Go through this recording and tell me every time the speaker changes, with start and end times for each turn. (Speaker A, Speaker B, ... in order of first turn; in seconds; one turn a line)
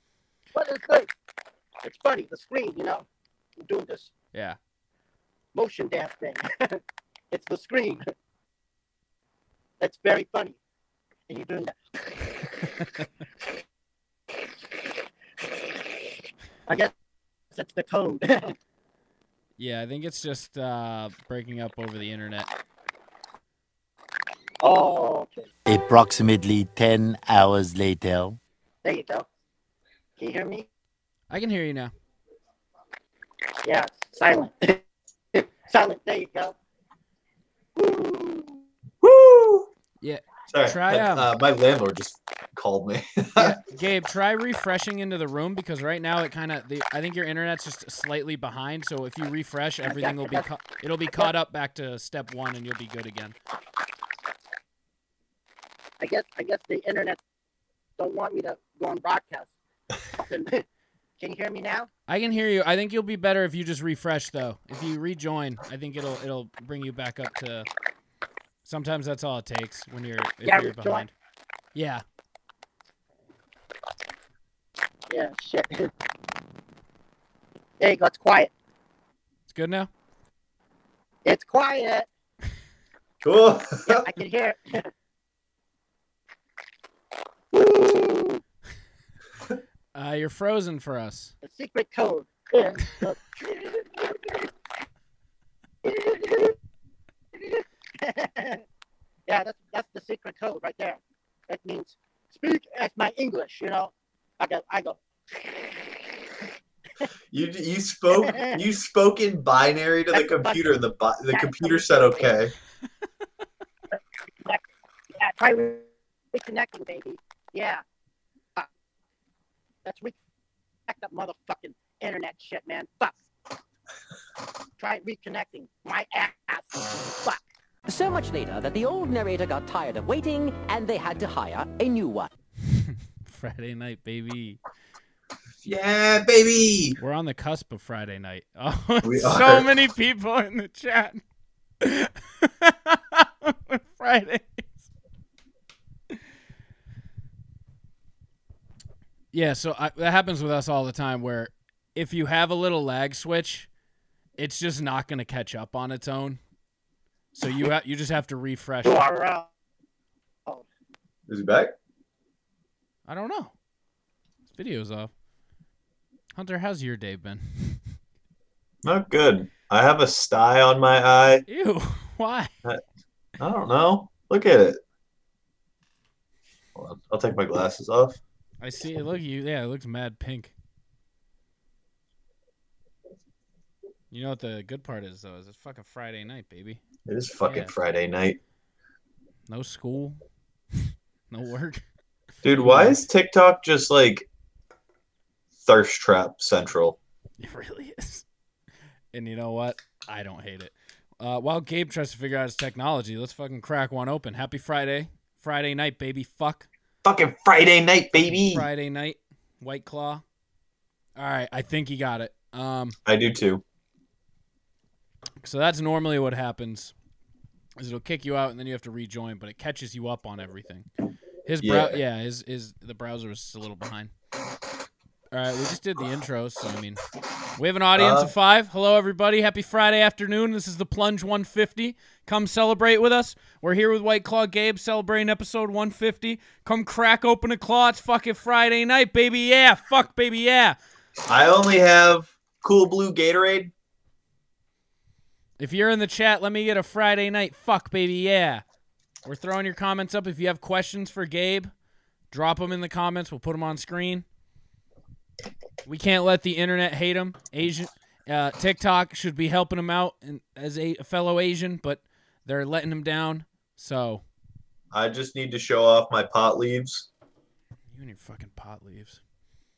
Speaker A: 0.5-1.1
Speaker A: 1.8-3.0
Speaker A: 3.6-4.1
Speaker A: 5.5-6.8
Speaker A: 7.3-8.0
Speaker A: 9.8-10.6
Speaker A: 11.3-11.8
Speaker A: 16.7-16.9
Speaker A: 17.5-18.6
Speaker B: 19.6-22.5
Speaker A: 24.6-25.5
Speaker C: 25.7-28.4
Speaker A: 28.8-29.3
Speaker A: 30.2-30.7
Speaker B: 31.3-31.9
Speaker A: 33.6-34.8
Speaker A: 35.4-36.6
Speaker A: 37.8-38.6
Speaker D: 39.0-39.7
Speaker B: 40.0-41.3
Speaker D: 40.5-43.6
Speaker B: 43.4-53.4
Speaker A: 49.8-50.4
Speaker A: 56.0-57.2
Speaker A: 58.0-59.5
Speaker A: 60.2-60.6
Speaker A: 61.2-61.9
Speaker B: 62.1-67.7
Speaker B: 68.7-71.1
Speaker A: 70.4-71.1
Speaker B: 71.8-72.0
Speaker A: 75.1-75.9
Speaker A: 77.8-78.5
Speaker B: 79.5-79.9
Speaker A: 81.2-82.1
Speaker D: 83.2-84.1
Speaker A: 83.9-84.9
Speaker A: 87.5-88.4
Speaker B: 89.9-91.3
Speaker A: 91.4-94.5
Speaker A: 95.8-96.6
Speaker A: 97.4-98.6
Speaker A: 99.3-105.7
Speaker D: 107.3-112.5
Speaker A: 108.2-108.6
Speaker A: 110.1-110.7
Speaker A: 111.3-112.2
Speaker A: 115.2-117.8
Speaker A: 119.8-120.2
Speaker A: 120.9-123.1
Speaker A: 124.8-127.4
Speaker E: 127.9-132.3
Speaker B: 132.7-134.6
Speaker D: 135.6-137.0
Speaker B: 137.0-141.2
Speaker D: 139.0-139.7
Speaker B: 141.8-144.8
Speaker B: 149.3-153.7
Speaker B: 154.4-156.4
Speaker B: 157.3-159.0
Speaker A: 158.8-159.5
Speaker D: 161.3-161.7
Speaker B: 163.1-163.5
Speaker B: 164.5-165.1
Speaker B: 166.3-167.8
Speaker D: 168.8-171.4
Speaker B: 171.5-172.5
Speaker D: 173.4-174.8
Speaker D: 176.8-178.2
Speaker B: 178.6-180.5
Speaker B: 184.1-186.8
Speaker D: 187.1-188.4
Speaker B: 187.4-187.7
Speaker B: 189.5-190.2
Speaker B: 190.8-191.8
Speaker D: 192.4-194.3
Speaker B: 192.5-193.0
Speaker D: 195.6-197.0
Speaker B: 197.4-198.2
Speaker B: 199.1-206.7
Speaker D: 207.0-208.6
Speaker B: 208.2-210.2
Speaker B: 211.2-213.0
Speaker D: 213.1-213.6
Speaker B: 215.4-216.9
Speaker B: 217.8-220.9
Speaker B: 221.5-224.1
Speaker D: 221.6-222.0
Speaker B: 225.3-227.0
Speaker B: 227.6-240.8
Speaker D: 228.0-228.3
Speaker D: 241.3-243.7
Speaker B: 245.6-248.6
Speaker B: 249.2-251.7
Speaker B: 252.3-254.2
Speaker B: 255.9-264.2
Speaker D: 264.9-267.1
Speaker B: 267.9-269.2